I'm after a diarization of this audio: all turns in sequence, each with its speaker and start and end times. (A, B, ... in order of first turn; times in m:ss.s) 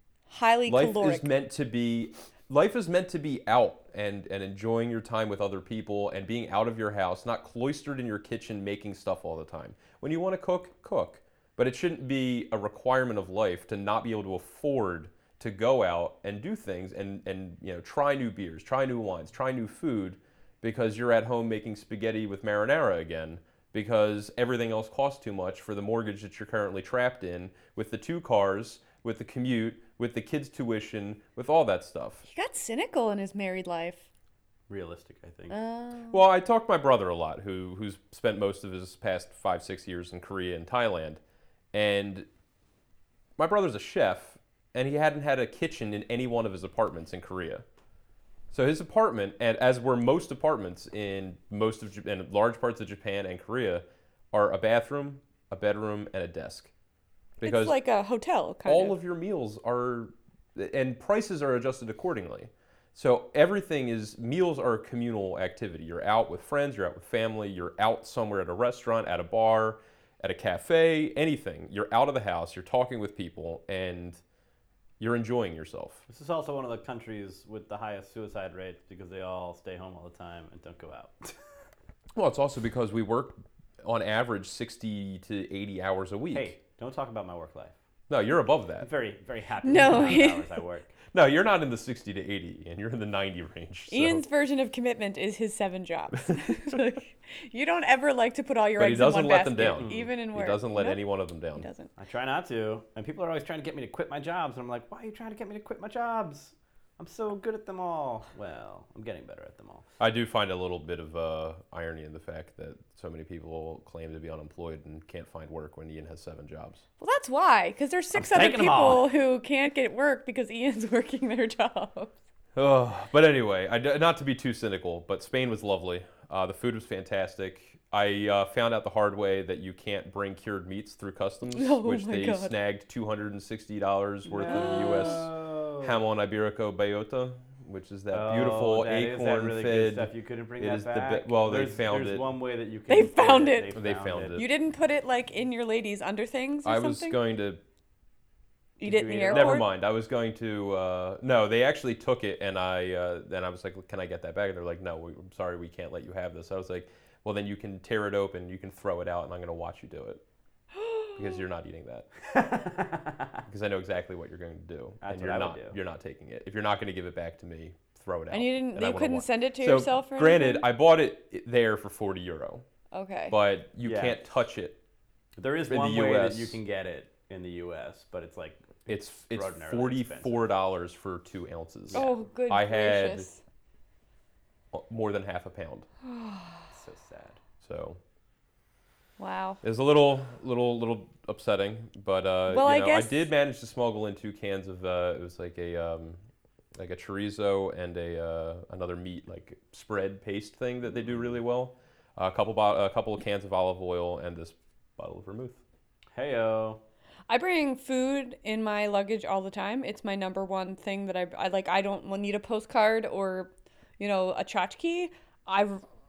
0:00.3-0:01.3 A
0:00.7-0:32.2 B
0:32.3-0:34.1 A
0:34.7-0:35.6 C
0:35.5-0:36.2 A
0:36.1-0:41.2 B
0:41.7-0:42.3 B
0:43.4-0:47.6 B
0:48.5-0:56.7 B
0:57.4-0:57.8 B
0:57.4-0:59.0 A
0:58.7-1:14.2 B
1:15.0-1:16.0 B
1:16.1-1:21.4 C
1:22.2-1:26.5 B
1:26.3-1:27.8 C
1:28.1-1:28.9 B
1:28.8-1:31.0 C
1:29.6-1:30.5 A
1:31.1-1:34.2 B
1:33.9-1:41.9 A
1:38.8-1:41.7 B
1:39.6-1:40.1 C
1:42.0-1:49.9 C
1:50.0-1:56.8 B
1:57.0-2:02.2 A
1:58.1-1:59.1 C
2:02.6-2:22.2 B
2:11.5-2:12.6 A
2:14.3-2:16.0 C
2:14.5-2:15.3 A
2:18.1-2:24.4 C
2:22.9-2:23.8 A
2:23.8-2:24.5 B
2:24.4-2:27.2 A
2:26.6-2:27.6 B
2:28.8-2:29.7 A
2:28.8-2:29.6 C
2:29.3-2:40.2 B
2:40.8-2:41.2 A
2:41.2-2:42.1 B
2:42.3-2:43.4 C
2:43.5-2:52.6 B
2:45.0-2:45.8 C
2:48.3-2:50.7 A
2:52.9-2:53.4 A
2:53.3-2:54.8 B
2:53.8-2:54.2 C
2:55.4-3:00.4 C
2:55.7-2:56.6 B
2:58.9-3:03.3 B
3:01.9-3:03.4 A
3:04.7-3:05.9 B
3:06.0-3:06.7 A
3:06.7-3:07.4 C
3:07.6-3:08.0 B
3:09.2-3:09.6 A
3:09.6-3:16.2 B
3:12.5-3:13.2 A
3:16.8-3:25.6 B
3:26.1-3:26.8 C
3:27.3-3:35.8 A